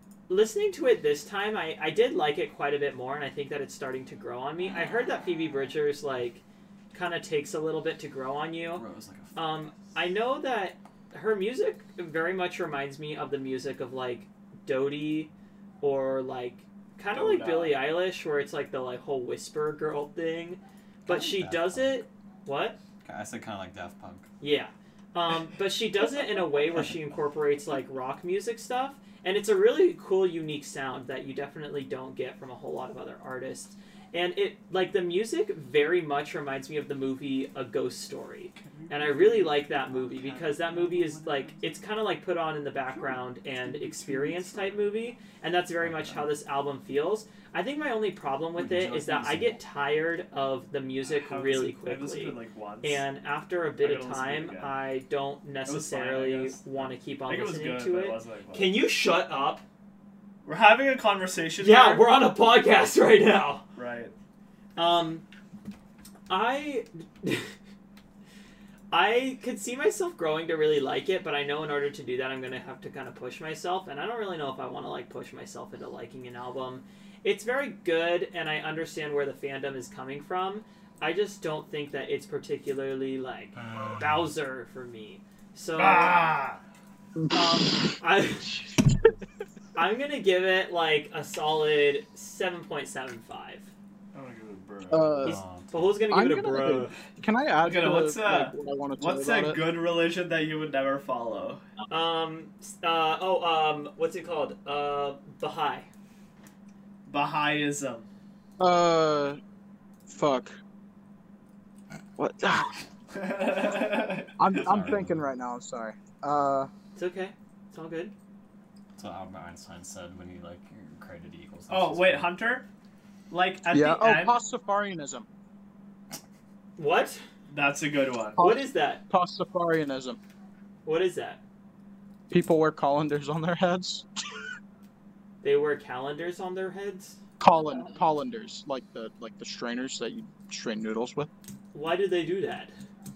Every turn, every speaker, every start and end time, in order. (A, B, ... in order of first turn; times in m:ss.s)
0:00.3-0:08.8 A
0:08.7-0:09.9 B
0:09.3-0:22.8 A
0:17.1-0:17.8 C
0:21.0-0:22.0 B
0:23.0-0:24.3 B
0:24.4-0:59.6 A
0:38.5-0:41.6 C
0:42.9-0:44.9 C
0:45.8-0:46.3 B
0:48.6-0:49.6 B
0:51.1-0:53.0 C
0:53.8-0:54.8 C
0:55.6-0:58.8 C
1:00.4-1:02.1 C
1:01.6-1:03.6 A
1:03.8-1:04.1 C
1:04.8-1:05.2 A
1:06.3-1:07.5 A
1:08.9-1:26.3 A
1:23.7-1:24.0 B
1:25.8-1:26.6 C
1:27.3-1:28.8 A
1:29.8-1:33.7 A
1:34.1-1:35.2 C
1:34.9-1:35.4 D
1:35.2-1:35.8 B
1:35.2-1:36.9 A
1:36.1-1:39.6 D
1:37.6-1:41.6 C
1:41.9-1:45.9 A
1:47.0-1:48.1 C
1:48.6-1:49.4 D
1:50.1-1:50.6 D
1:52.2-1:52.8 D
1:53.1-1:54.4 C
1:54.4-1:56.7 D
1:54.6-1:55.2 B
1:57.0-1:58.1 A
1:59.0-2:02.3 B
2:01.7-2:02.7 C
2:03.3-2:04.4 C
2:03.7-2:05.3 D
2:06.8-2:07.2 A
2:07.5-2:08.4 C
2:08.4-2:10.2 D
2:08.4-2:09.0 A
2:10.8-2:11.4 A
2:12.3-2:14.1 D
2:15.4-2:17.2 A
2:17.4-2:21.3 D
2:21.7-2:22.7 A